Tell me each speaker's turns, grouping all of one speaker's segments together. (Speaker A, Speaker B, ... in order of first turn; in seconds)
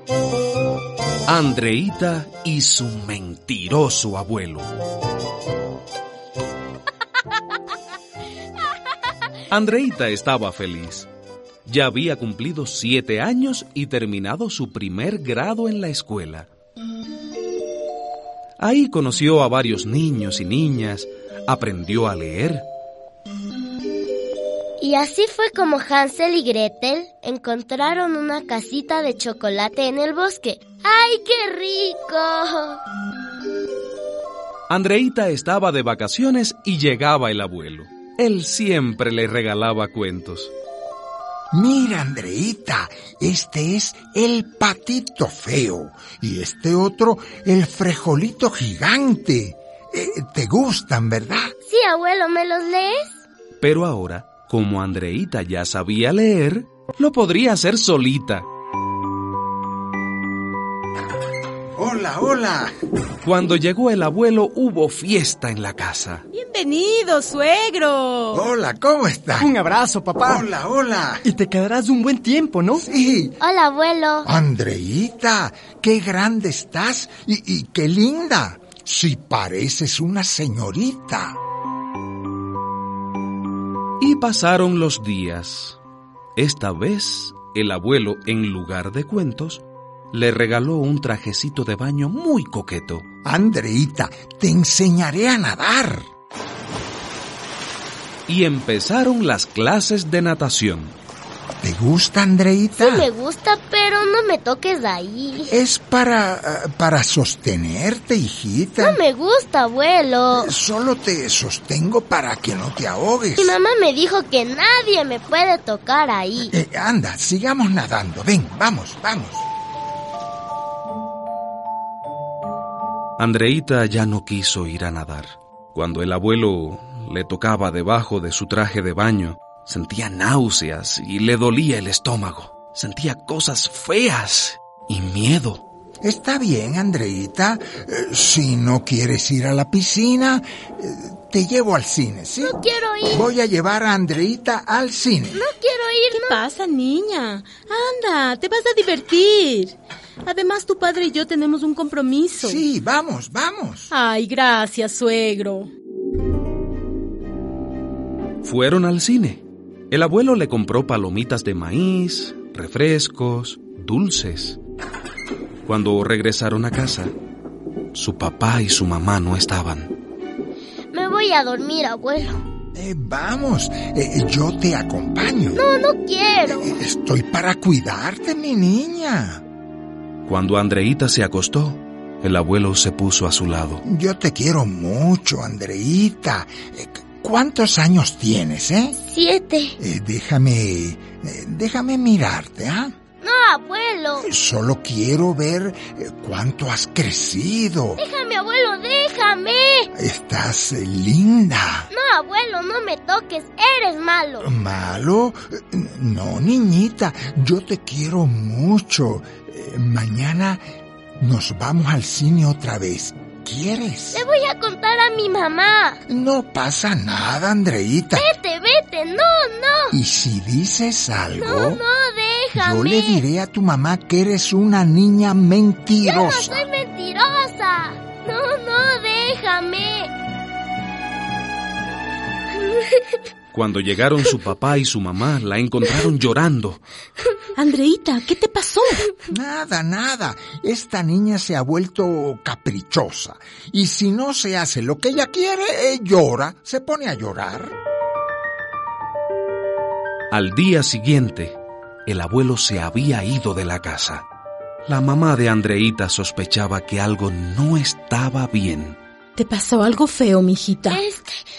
Speaker A: 1.3-4.7, 9.5-11.1, 11.7-16.5, 18.6-22.6, 34.7-40.5, 53.6-58.5, 63.2-66.2, 84.0-85.8, 86.3-93.1, 98.3-100.9, 123.2-135.6, 158.4-164.6, 165.7-167.1, 167.9-169.9, 180.2-183.8, 233.5-236.8, 250.3-254.2, 254.9-259.0
Speaker B: 24.8-32.8, 51.6-53.1, 73.4-74.3, 102.8-105.5, 108.8-110.5, 113.4-116.5, 142.4-143.3, 145.3-146.4, 170.9-172.4, 175.5-176.7, 189.0-189.8, 193.2-194.3, 198.0-199.9, 201.9-204.5, 214.1-216.0, 218.1-220.0, 221.4-223.2, 226.0-230.1, 260.9-261.4
Speaker C: 41.5-51.5, 61.8-62.7, 68.3-69.5, 70.2-71.2, 72.8-73.4, 74.2-81.3, 93.2-96.1, 101.6-103.1, 105.5-109.0, 110.3-113.6, 116.5-119.5, 136.0-145.4, 152.4-153.9, 172.7-175.6, 176.5-179.4, 183.8-189.0, 189.8-192.9, 194.2-198.0, 199.9-201.9, 204.4-210.6, 211.2-214.2, 216.1-218.3, 219.9-221.8, 222.5-226.6, 239.3-247.7
Speaker D: 66.3-68.3, 146.1-152.6, 153.9-155.7, 237.6-239.1, 259.4-261.0
Speaker E: 69.4-70.5, 71.2-72.8